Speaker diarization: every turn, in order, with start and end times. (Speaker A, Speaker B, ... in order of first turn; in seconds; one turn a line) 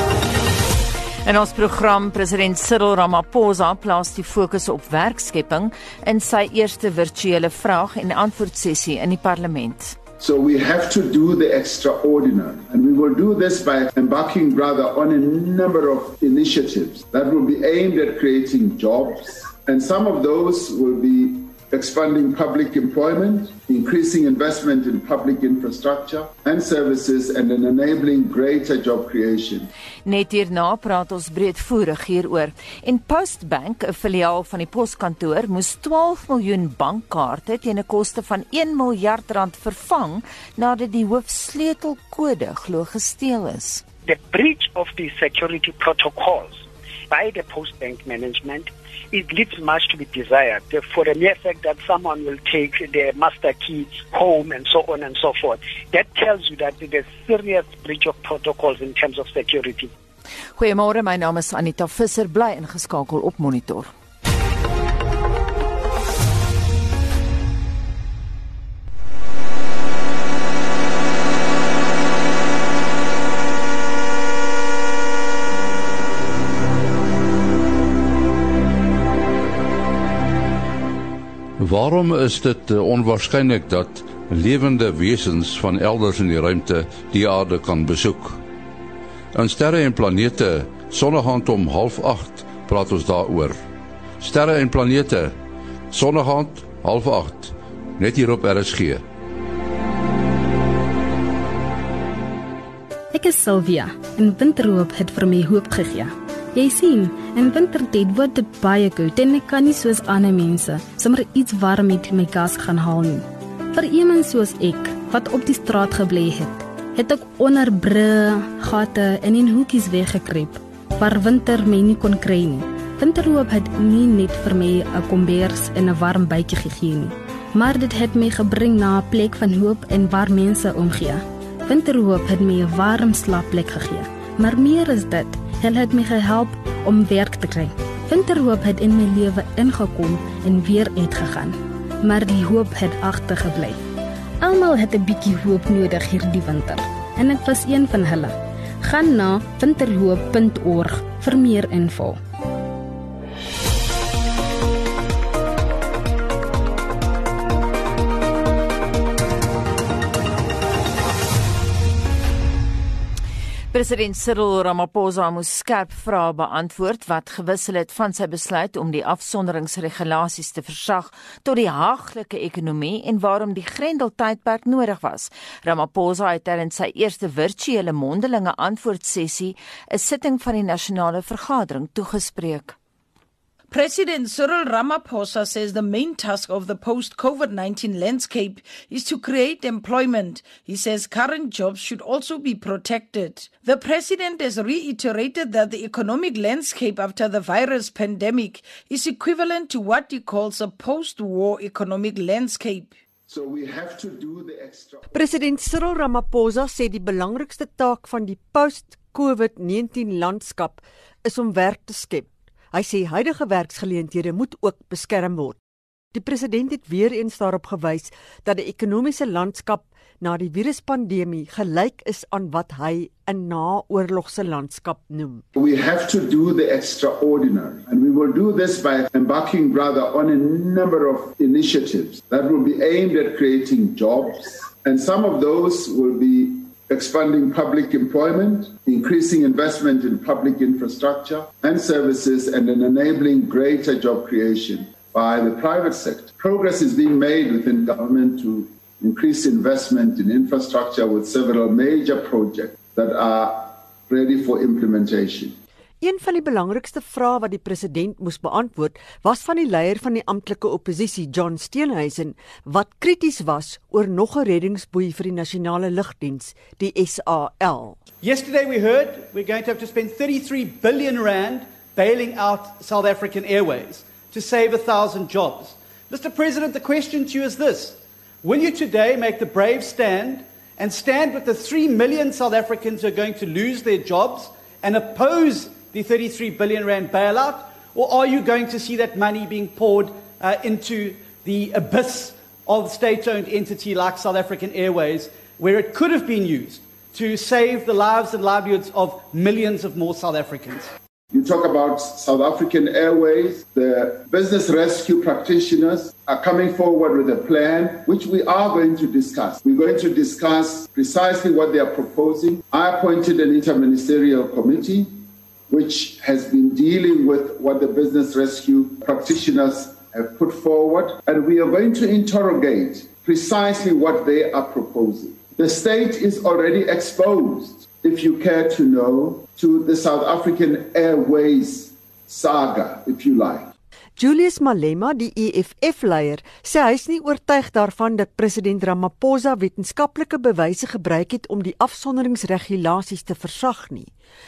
Speaker A: 1.2-10.0
Speaker B: 10.2-29.7
Speaker A: 30.0-43.8
Speaker C: 44.0-59.9
Speaker A: 60.5-63.9
Speaker D: 81.6-88.4
Speaker D: 89.3-93.6
Speaker D: 94.2-95.3
Speaker D: 95.9-99.0
Speaker E: 103.1-143.8
Speaker E: 144.4-152.2
Speaker A: 163.7-182.8
Speaker F: 183.7-203.0
Speaker B: 203.3-205.1
Speaker G: 205.1-215.6
Speaker G: 216.1-225.4
Speaker B: 225.5-255.5
Speaker G: 256.0-268.0
Speaker H: 268.2-300.9
Speaker B: 301.3-333.7
Speaker G: 334.2-344.1